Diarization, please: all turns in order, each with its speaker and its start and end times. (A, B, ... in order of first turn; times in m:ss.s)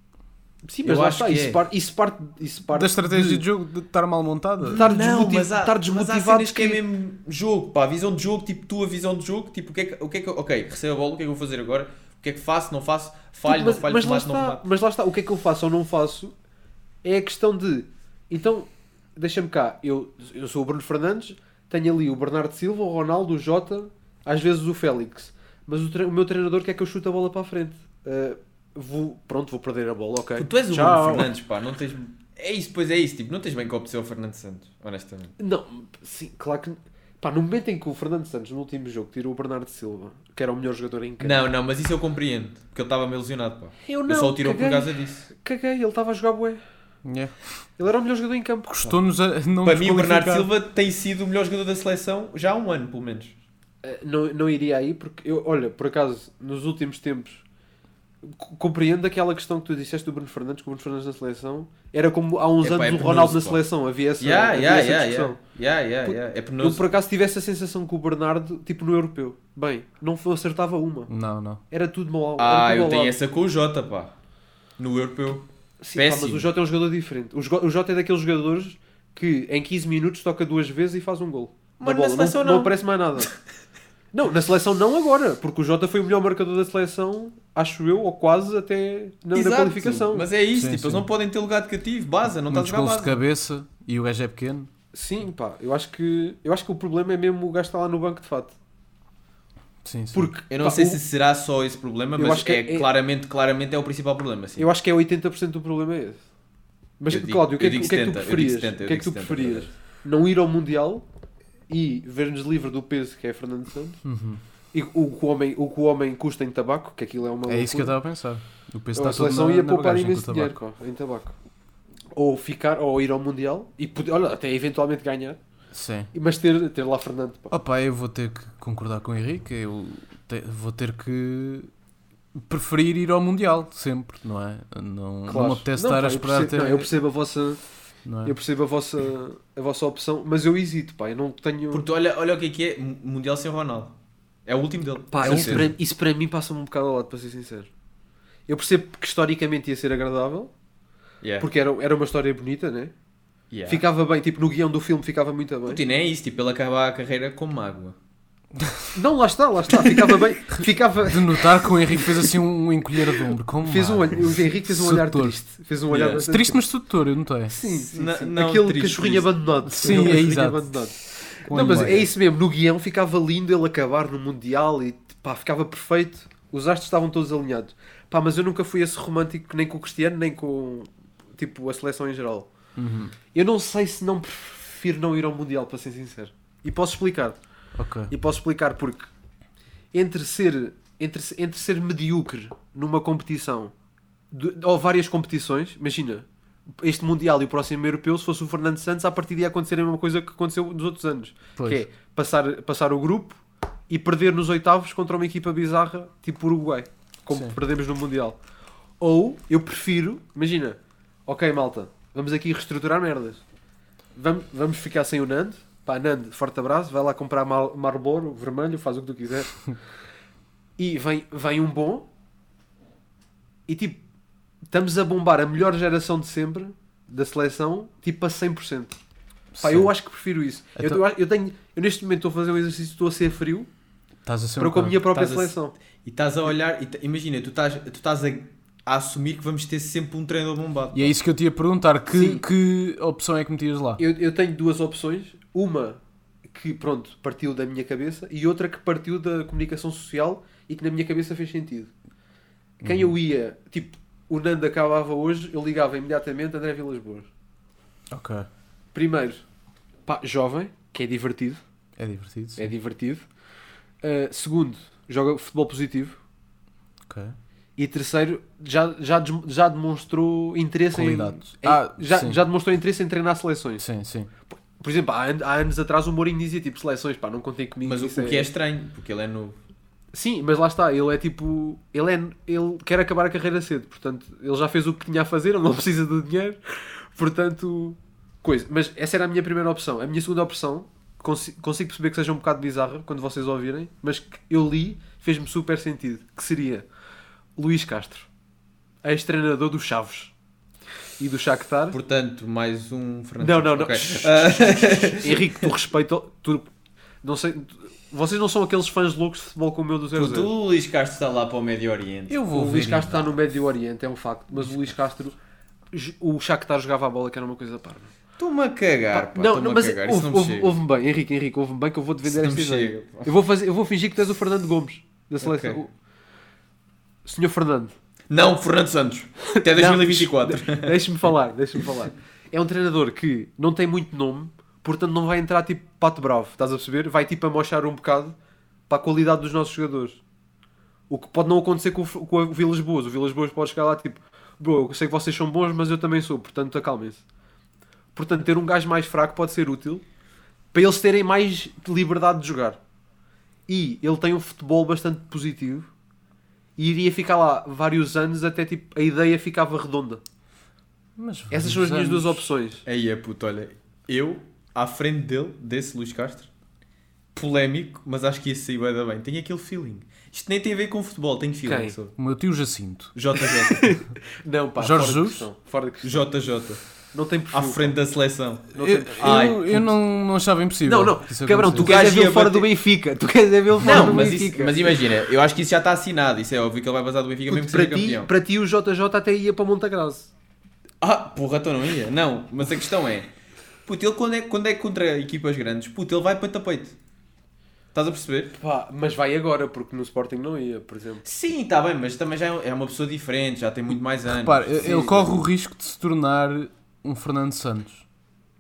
0:00.6-0:03.4 A
0:00.8-0:01.6 B
0:02.7-0:04.8 C
0:04.7-0:14.6 B
0:04.7-0:06.8 A
0:13.5-0:16.3 A
0:17.0-0:31.4 A
0:30.4-0:35.3 B
0:35.4-0:41.4 A
0:41.2-0:45.3 B
0:43.8-0:46.6 A
0:47.0-0:47.4 C
0:47.8-0:48.9 A
0:48.7-0:50.5 C
0:49.6-0:53.3 B
0:53.8-0:57.4 A
0:58.2-1:05.4 A
1:02.6-1:03.6 B
1:04.2-1:06.8 B
1:06.0-1:11.1 A
1:11.1-1:11.6 C
1:11.7-1:13.2 A
1:12.4-1:14.1 B
1:14.8-1:16.5 B
1:15.8-1:23.3 A
1:21.8-1:23.2 B
1:24.1-1:30.3 A
1:29.3-1:33.2 B
1:30.5-1:31.1 C
1:32.5-1:34.7 C
1:34.9-1:38.6 A
1:39.8-1:40.3 C
1:40.1-1:41.0 A
1:40.5-1:44.7 B
1:42.2-1:42.9 A
1:44.6-1:46.2 A
1:47.0-1:51.1 A
1:47.1-1:49.7 B
1:51.7-1:54.0 A
1:54.0-1:54.4 C
1:54.7-1:58.0 A
1:57.5-2:00.6 C
1:59.0-2:01.3 A
2:02.1-2:05.4 A
2:05.7-2:06.1 C
2:06.1-2:07.5 A
2:07.5-2:11.7 C
2:12.4-2:16.9 C
2:15.3-2:17.6 A
2:18.1-2:18.3 C
2:18.2-2:21.8 A
2:21.7-2:25.7 B
2:25.1-2:27.7 A
2:25.2-2:25.7 C
2:28.5-2:30.5 A
2:31.2-2:31.5 B
2:31.4-2:32.9 A
2:33.5-2:33.8 B
2:33.7-2:35.8 A
2:35.7-2:38.0 B
2:39.0-2:42.4 A
2:40.5-2:45.4 C
2:43.6-2:46.6 A
2:45.9-2:46.3 B
2:46.0-2:47.5 C
2:47.5-3:02.5 A
2:47.6-2:50.2 B
2:49.7-2:50.7 C
2:51.4-2:52.1 C
2:51.5-2:52.0 B
3:02.8-3:03.2 C
3:03.3-3:07.4 A
3:07.8-3:08.1 C
3:08.1-3:09.1 A
3:09.9-3:13.7 A
3:14.3-3:28.4 A
3:21.6-3:21.8 C
3:29.0-3:33.4 A
3:34.2-3:39.6 A
3:40.8-3:42.1 A
3:43.7-3:44.0 A
3:44.7-3:49.0 A
3:49.5-3:49.9 C
3:49.6-3:53.7 A
3:50.8-3:51.0 C
3:54.3-3:55.0 C
3:54.6-3:55.7 A
3:55.1-4:01.2 B
4:00.9-4:04.0 C
4:02.1-4:02.4 A
4:04.0-4:11.9 A
4:12.8-4:17.3 A
4:12.8-4:13.2 C
4:18.1-4:18.5 C
4:18.9-4:19.4 A
4:20.1-4:21.6 A
4:22.0-4:22.7 C
4:22.6-4:23.3 A
4:24.0-4:26.2 A
4:27.1-4:27.4 C
4:27.8-4:33.8 A
4:30.9-4:32.4 C
4:33.8-4:34.3 C
4:34.5-4:38.5 A
4:37.8-4:39.6 B
4:40.1-4:56.9 A
4:57.6-4:58.3 A
4:59.0-5:00.3 A
5:01.2-5:02.0 A
5:01.9-5:05.7 B
5:03.4-5:06.7 A
5:07.2-5:10.5 A
5:10.1-5:12.4 B
5:12.3-5:13.2 C
5:12.5-5:15.4 A
5:15.9-5:18.1 A
5:18.4-5:20.8 B
5:19.1-5:25.9 A
5:22.2-5:23.3 B
5:25.4-5:25.8 B
5:27.2-5:27.9 A
5:28.3-5:31.0 B
5:29.6-5:38.4 A
5:38.9-5:40.2 A
5:41.1-5:47.2 A
5:48.1-5:50.0 A
5:50.7-5:52.8 A
5:53.7-5:55.9 A
5:56.8-6:00.2 A
6:01.2-6:02.5 C
6:01.5-6:02.8 A
6:02.9-6:06.5 B
6:07.4-6:12.2 B
6:11.6-6:12.0 A
6:12.2-6:13.1 C
6:13.2-6:14.0 B
6:13.4-6:16.3 A
6:14.8-6:15.5 C
6:16.0-6:16.8 B
6:17.1-6:18.0 A
6:17.5-6:19.9 B
6:18.7-6:19.6 A
6:18.8-6:21.9 C
6:20.9-6:25.0 A
6:21.8-6:22.7 B
6:23.8-6:28.3 B
6:23.8-6:24.2 C
6:27.5-6:30.3 A
6:31.0-6:33.3 B
6:33.9-6:37.0 B
6:38.0-6:38.6 B
6:38.5-6:41.2 A
6:41.2-6:45.3 B
6:44.3-6:48.0 C
6:44.8-6:45.3 A